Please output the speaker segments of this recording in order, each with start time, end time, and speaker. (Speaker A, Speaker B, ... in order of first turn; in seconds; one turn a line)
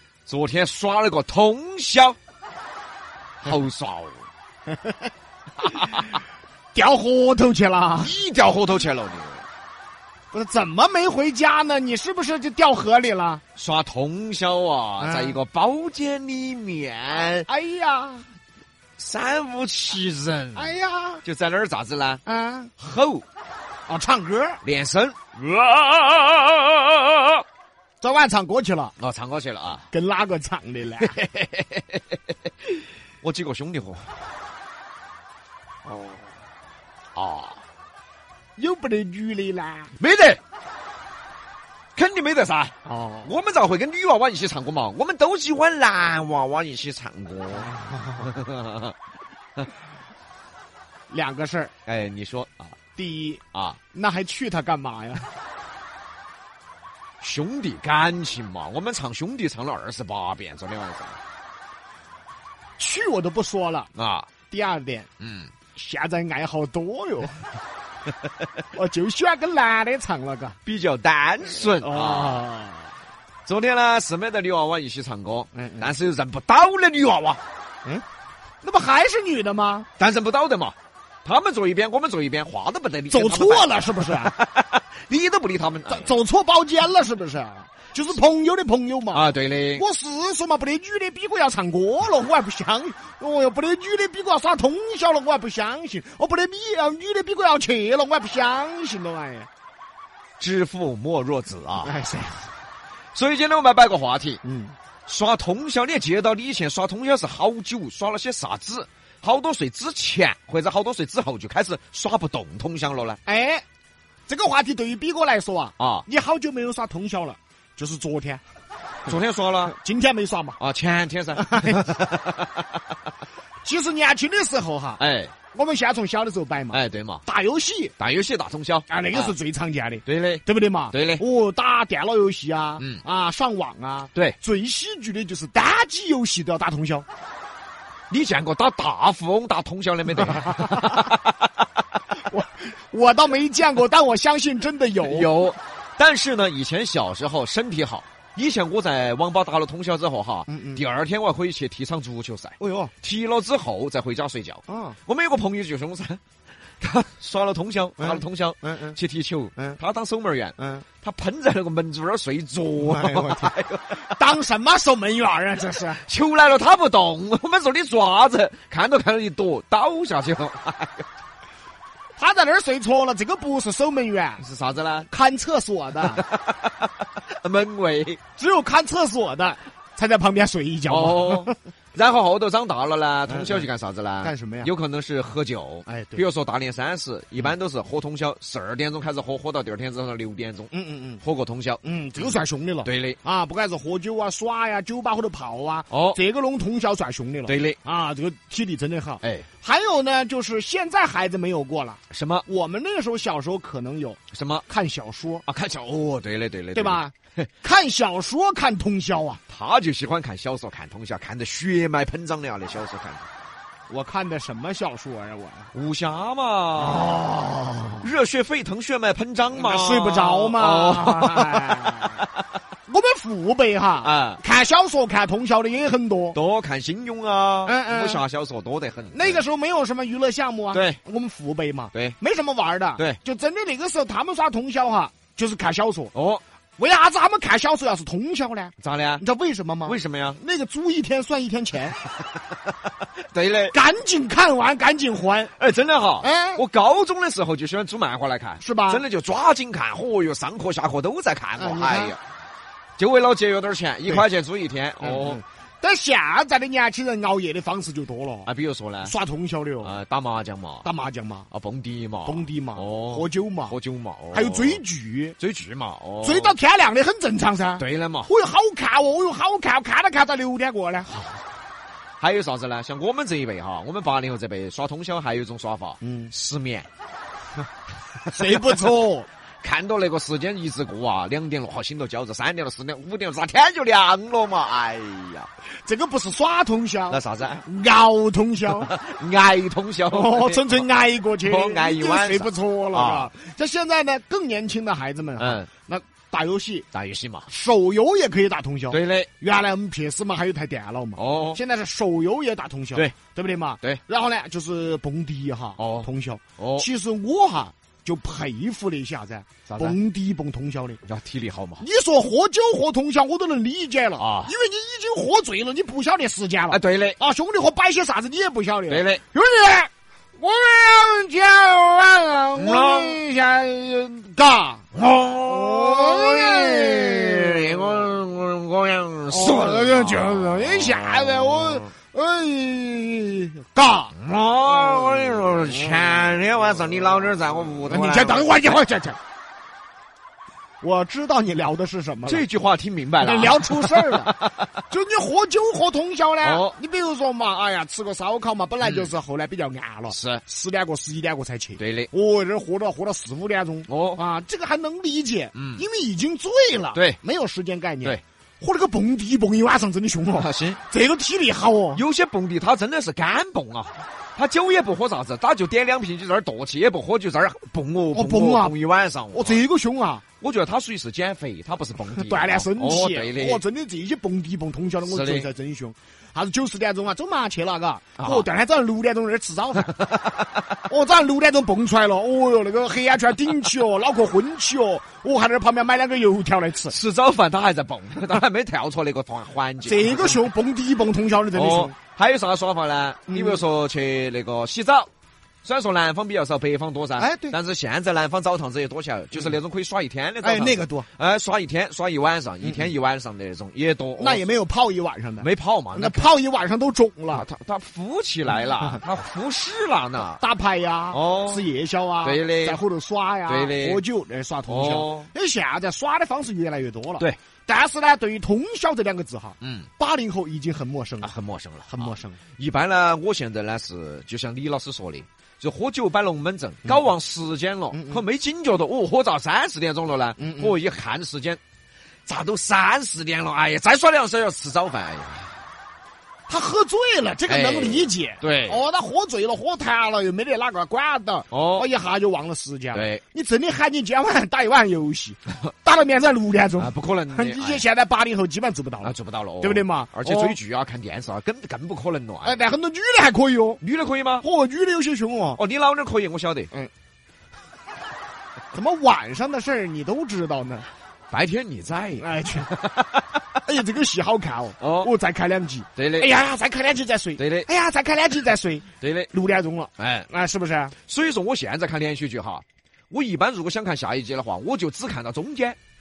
Speaker A: 0.3-2.2
Speaker A: 3.4-4.2
Speaker B: 4.7-5.0
Speaker A: 5.7-6.0
Speaker B: 6.7-8.1
Speaker A: 8.0-9.5
Speaker B: 10.3-13.4
Speaker A: 13.6-17.5
Speaker B: 15.0-15.4
Speaker B: 17.4-18.2
Speaker A: 19.0-20.7
Speaker B: 20.5-21.2
Speaker A: 21.2-22.2
Speaker B: 22.2-22.7
Speaker A: 22.8-23.2
Speaker B: 23.9-24.6
Speaker A: 24.6-27.4
Speaker B: 28.0-28.9
Speaker A: 29.0-29.9
Speaker B: 29.9-31.2
Speaker A: 31.0-32.0
Speaker A: 33.2-34.0
Speaker B: 35.9-36.3
Speaker A: 37.1-37.6
Speaker B: 38.6-39.9
Speaker A: 40.0-40.4
Speaker A: 42.0-48.9
Speaker B: 42.8-43.3
Speaker B: 47.6-48.2
Speaker B: 51.1-51.7
Speaker A: 51.9-52.7
Speaker B: 53.0-53.4
Speaker A: 53.5-53.8
Speaker B: 53.9-55.3
Speaker A: 57.2-61.2
Speaker B: 62.8-63.9
Speaker A: 63.9-64.3
Speaker B: 64.5-65.1
Speaker A: 65.2-65.5
Speaker B: 65.7-67.3
Speaker B: 68.7-70.5
Speaker A: 70.7-72.4
Speaker B: 71.7-72.9
Speaker A: 73.5-77.4
Speaker B: 75.5-75.9
Speaker B: 78.6-79.9
Speaker A: 80.0-86.1
Speaker B: 83.1-84.3
Speaker B: 85.9-99.5
Speaker A: 89.1-89.8
Speaker A: 100.4-101.9
Speaker B: 101.8-102.5
Speaker A: 103.1-104.4
Speaker B: 104.4-104.8
Speaker A: 105.1-113.2
Speaker B: 113.2-113.6
Speaker B: 114.3-118.4
Speaker A: 115.8-116.0
Speaker A: 119.0-119.8
Speaker B: 119.7-120.6
Speaker A: 120.6-122.6
Speaker B: 121.3-121.9
Speaker B: 123.6-125.0
Speaker A: 125.0-125.3
Speaker B: 125.5-127.9
Speaker A: 126.7-127.2
Speaker A: 128.0-129.3
Speaker B: 128.9-137.1
Speaker A: 130.0-131.2
Speaker A: 138.1-141.3
Speaker B: 140.3-140.8
Speaker B: 142.3-145.3
Speaker A: 145.0-156.2
Speaker B: 150.5-150.8
Speaker B: 152.6-152.9
Speaker B: 154.7-155.0
Speaker A: 156.8-164.2
Speaker B: 158.0-159.0
Speaker B: 160.6-160.8
Speaker B: 162.8-163.5
Speaker B: 164.1-166.0
Speaker A: 165.9-171.1
Speaker B: 172.2-174.4
Speaker A: 174.4-175.1
Speaker B: 175.1-176.2
Speaker A: 176.1-178.2
Speaker B: 178.4-181.6
Speaker A: 180.9-190.7
Speaker B: 183.3-183.7
Speaker B: 184.2-184.7
Speaker B: 185.9-186.2
Speaker B: 190.7-191.2
Speaker A: 191.2-193.2
Speaker B: 191.8-205.4
Speaker A: 195.9-196.2
Speaker A: 197.4-197.8
Speaker A: 199.2-199.5
Speaker A: 202.1-202.4
Speaker A: 204.3-204.7
Speaker A: 205.5-207.5
Speaker B: 206.7-209.4
Speaker A: 209.5-213.3
Speaker B: 213.9-215.7
Speaker A: 215.7-217.2
Speaker B: 216.8-218.1
Speaker A: 218.0-222.2
Speaker B: 219.5-222.2
Speaker B: 222.9-226.4
Speaker A: 224.0-224.4
Speaker A: 226.3-229.4
Speaker B: 227.6-228.2
Speaker B: 229.1-236.1
Speaker A: 230.7-231.0
Speaker A: 236.1-236.4
Speaker B: 236.8-242.0
Speaker A: 238.8-239.2
Speaker A: 239.8-240.4
Speaker A: 243.3-243.8
Speaker B: 243.7-245.5
Speaker A: 245.6-252.2
Speaker B: 246.2-246.6
Speaker B: 248.6-249.1
Speaker B: 251.6-252.2
Speaker A: 253.0-255.4
Speaker B: 255.0-258.5
Speaker A: 258.4-259.1
Speaker B: 259.0-259.9
Speaker A: 259.8-260.9
Speaker B: 260.8-261.5
Speaker A: 261.5-264.8
Speaker B: 262.2-263.8
Speaker B: 264.3-265.4
Speaker A: 265.4-266.6
Speaker B: 266.2-271.1
Speaker A: 267.8-268.3
Speaker A: 271.1-271.4
Speaker A: 272.2-276.9
Speaker B: 276.0-276.3
Speaker A: 278.3-278.7
Speaker B: 278.3-279.3
Speaker A: 279.6-285.5
Speaker B: 285.8-288.9
Speaker A: 287.1-287.6
Speaker A: 288.7-290.9
Speaker B: 290.1-296.9
Speaker A: 291.4-293.3
Speaker A: 295.4-295.7
Speaker A: 296.9-297.5
Speaker B: 297.5-311.0
Speaker A: 298.9-299.3
Speaker A: 301.1-301.6
Speaker A: 305.8-306.9
Speaker A: 309.7-309.9
Speaker A: 311.0-311.8
Speaker B: 311.8-324.9
Speaker A: 314.2-314.5
Speaker A: 316.7-317.2
Speaker A: 318.9-319.2
Speaker A: 322.5-323.2
Speaker A: 324.9-331.8
Speaker B: 325.4-328.0
Speaker B: 329.3-334.1
Speaker A: 334.1-338.5
Speaker B: 334.7-336.2
Speaker B: 337.8-339.2
Speaker B: 340.8-342.4
Speaker A: 342.2-344.7
Speaker B: 343.2-344.3
Speaker B: 344.9-362.0
Speaker A: 346.4-346.7
Speaker A: 348.8-349.1
Speaker A: 350.1-350.4
Speaker A: 351.8-352.1
Speaker A: 353.9-354.2
Speaker A: 355.5-355.8
Speaker A: 360.3-360.8
Speaker A: 361.9-369.6
Speaker B: 368.1-368.7
Speaker B: 369.3-370.2
Speaker A: 370.4-373.6
Speaker B: 372.1-379.9
Speaker A: 375.0-375.5
Speaker A: 378.2-378.4
Speaker A: 379.9-380.6
Speaker B: 380.8-386.9
Speaker A: 386.9-390.5
Speaker B: 389.8-391.9
Speaker A: 391.5-395.1
Speaker B: 393.3-393.6
Speaker A: 395.6-404.4
Speaker B: 397.2-397.6
Speaker B: 400.4-401.1
Speaker B: 404.2-407.4
Speaker A: 405.4-406.2
Speaker A: 407.3-410.4
Speaker B: 408.7-409.0
Speaker B: 410.4-421.3
Speaker A: 411.1-411.7
Speaker A: 412.2-412.8
Speaker A: 413.5-414.0
Speaker A: 414.7-415.3
Speaker A: 419.6-419.9
Speaker A: 421.2-431.6
Speaker B: 421.9-422.4
Speaker B: 427.9-428.2
Speaker B: 430.4-430.7
Speaker A: 432.3-435.5
Speaker B: 436.5-450.6
Speaker A: 437.5-438.8
Speaker A: 441.5-441.9
Speaker A: 442.9-443.2
Speaker A: 446.8-447.8
Speaker A: 449.0-452.6
Speaker B: 452.4-453.8
Speaker A: 453.8-454.4
Speaker B: 454.4-455.6
Speaker A: 455.6-456.7
Speaker B: 458.7-460.9
Speaker A: 461.3-463.2
Speaker B: 462.2-462.7
Speaker B: 463.6-470.9
Speaker A: 464.8-465.1
Speaker A: 465.9-466.3
Speaker A: 467.4-467.7
Speaker A: 469.0-469.3
Speaker A: 470.0-470.3
Speaker A: 471.1-475.8